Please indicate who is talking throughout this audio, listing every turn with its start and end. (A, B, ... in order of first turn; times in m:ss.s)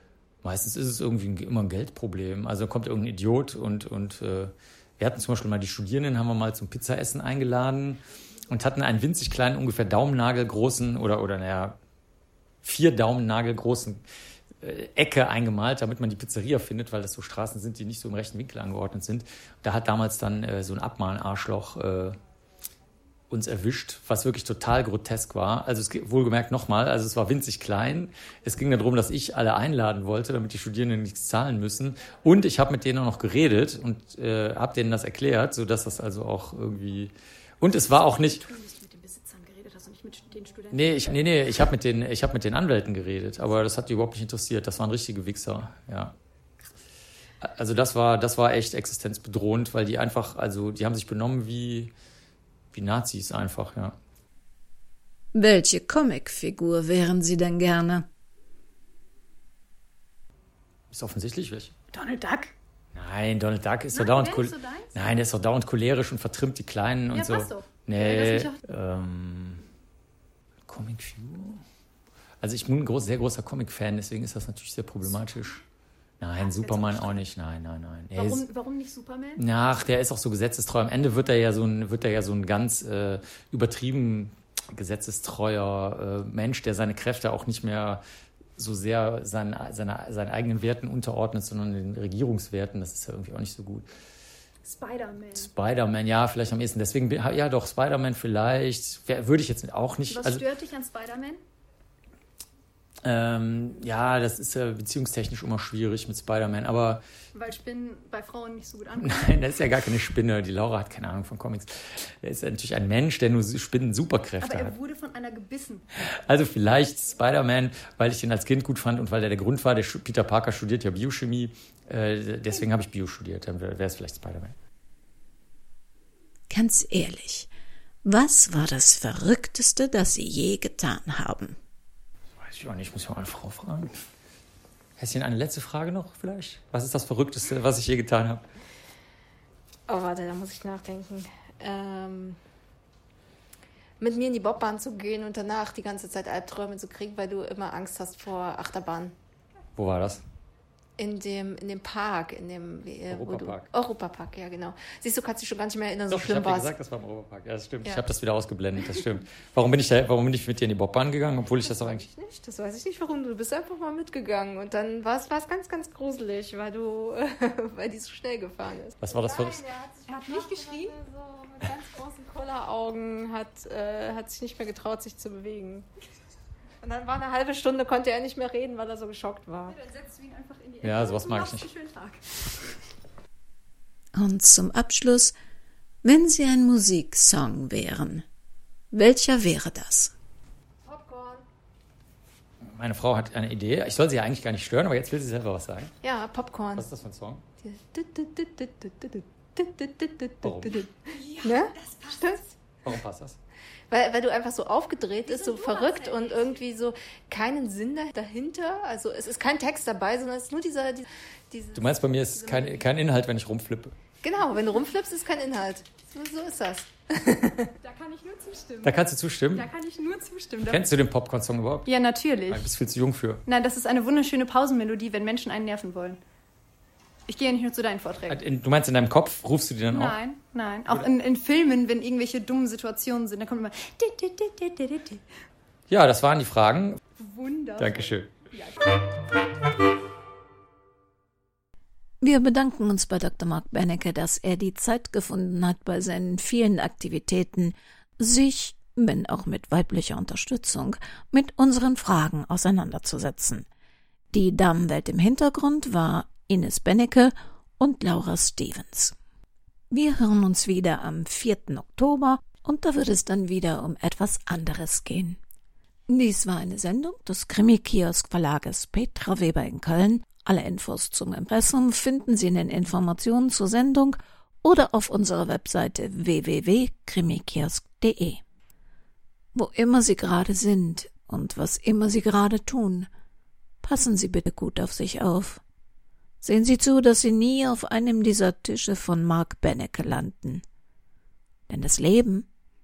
0:00.4-0:11.7 A
0:12.6-0:14.0 A
0:14.6-0:22.2 A
0:23.3-0:38.4 A
0:38.0-0:40.9 B
0:40.7-0:46.1 A
0:47.4-0:51.9 A
0:52.7-0:54.0 A
0:55.3-0:58.1 C
1:00.9-1:01.7 A
1:01.9-1:02.5 B
1:02.9-1:09.6 A
1:03.9-1:05.1 B
1:07.1-1:08.6 B
1:10.7-1:11.6 A
1:12.4-1:15.6 A
1:16.2-1:18.4 A
1:16.4-1:17.2 B
1:18.1-1:19.4 B
1:19.4-1:28.0 A
1:28.6-1:33.9 A
1:34.6-1:35.5 B
1:35.4-1:40.4 A
1:40.1-1:41.4 B
1:43.0-1:47.0 A
1:47.3-1:49.3 B
1:49.0-1:54.8 A
1:54.4-1:55.9 B
1:56.0-2:04.5 A
2:06.5-2:07.5 C
2:08.0-2:11.6 C
2:12.4-2:13.9 A
2:15.0-2:18.4 A
2:19.9-2:22.4 D
2:24.0-2:29.1 D
2:29.8-2:30.2 A
2:31.0-2:36.7 D
2:33.1-2:33.7 A
2:36.1-2:42.0 A
2:41.6-2:55.9 D
2:49.0-2:49.6 A
2:50.1-2:51.0 B
2:56.8-2:59.8 D
2:59.7-3:02.7 B
3:00.8-3:01.7 A
3:04.1-3:05.3 C
3:06.0-3:08.2 C
3:08.9-3:10.1 C
3:10.8-3:11.4 D
3:12.7-3:15.9 A
3:16.0-3:16.8 D
3:16.8-3:17.4 A
3:17.6-3:22.6 D
3:20.4-3:20.8 A
3:21.1-3:22.1 B
3:22.8-3:23.4 A
3:23.9-3:31.9 D
3:25.3-3:26.5 B
3:31.7-3:34.0 A
3:34.2-3:37.7 D
3:37.8-3:39.0 B
3:38.8-3:39.7 A
3:39.5-3:40.9 B
3:40.6-3:41.9 A
3:41.8-3:42.7 B
3:42.5-3:43.4 A
3:43.5-3:46.2 B
3:47.3-3:48.4 B
3:48.3-3:50.2 A
3:49.9-3:55.2 B
3:55.9-3:57.0 A
3:57.2-3:58.8 B
3:57.8-3:58.3 A
4:02.2-4:13.6 C
4:14.3-4:19.2 C
4:19.9-4:25.4 C
4:26.1-4:38.4 C
4:39.5-4:43.1 C
4:43.8-4:45.6 C
4:46.4-4:50.6 C
4:51.7-4:52.5 C